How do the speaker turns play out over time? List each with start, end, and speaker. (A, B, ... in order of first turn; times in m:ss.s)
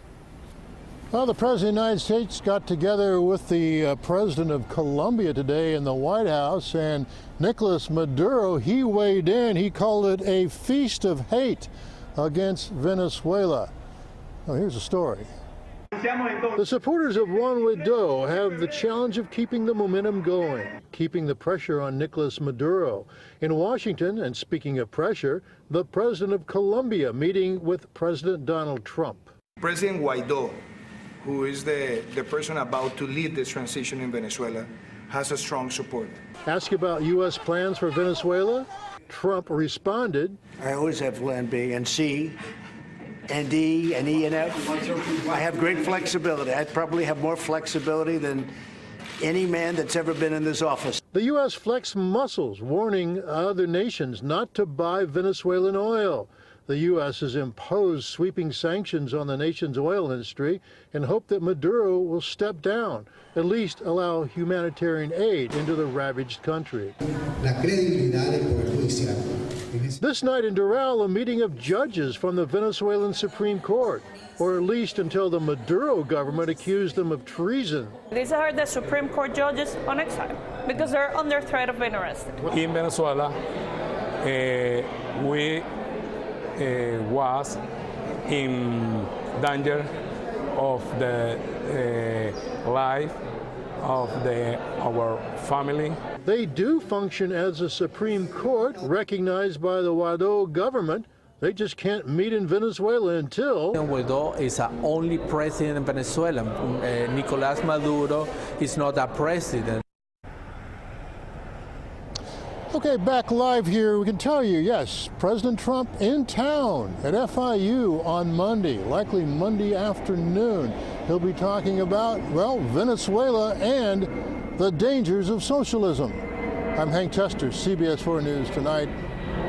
0:01.1-0:13.7 A
0:14.4-0:15.3 A
0:16.6-0:29.3 A
0:29.6-0:30.6 B
0:31.2-0:36.2 B
0:36.5-0:40.4 A
0:40.6-0:42.4 C
0:43.3-0:48.5 C
0:49.2-0:51.0 C
0:51.1-1:07.0 A
1:07.4-1:09.2 C
1:10.0-1:18.0 A
1:18.1-1:22.4 D
1:22.5-1:23.3 E
1:24.2-1:25.6 E
1:26.6-1:27.6 E
1:28.3-1:29.9 E
1:30.5-1:33.2 E
1:33.8-1:36.0 E
1:36.2-1:43.8 A
1:43.8-1:49.8 F
1:52.7-2:06.2 A
2:06.8-2:08.9 A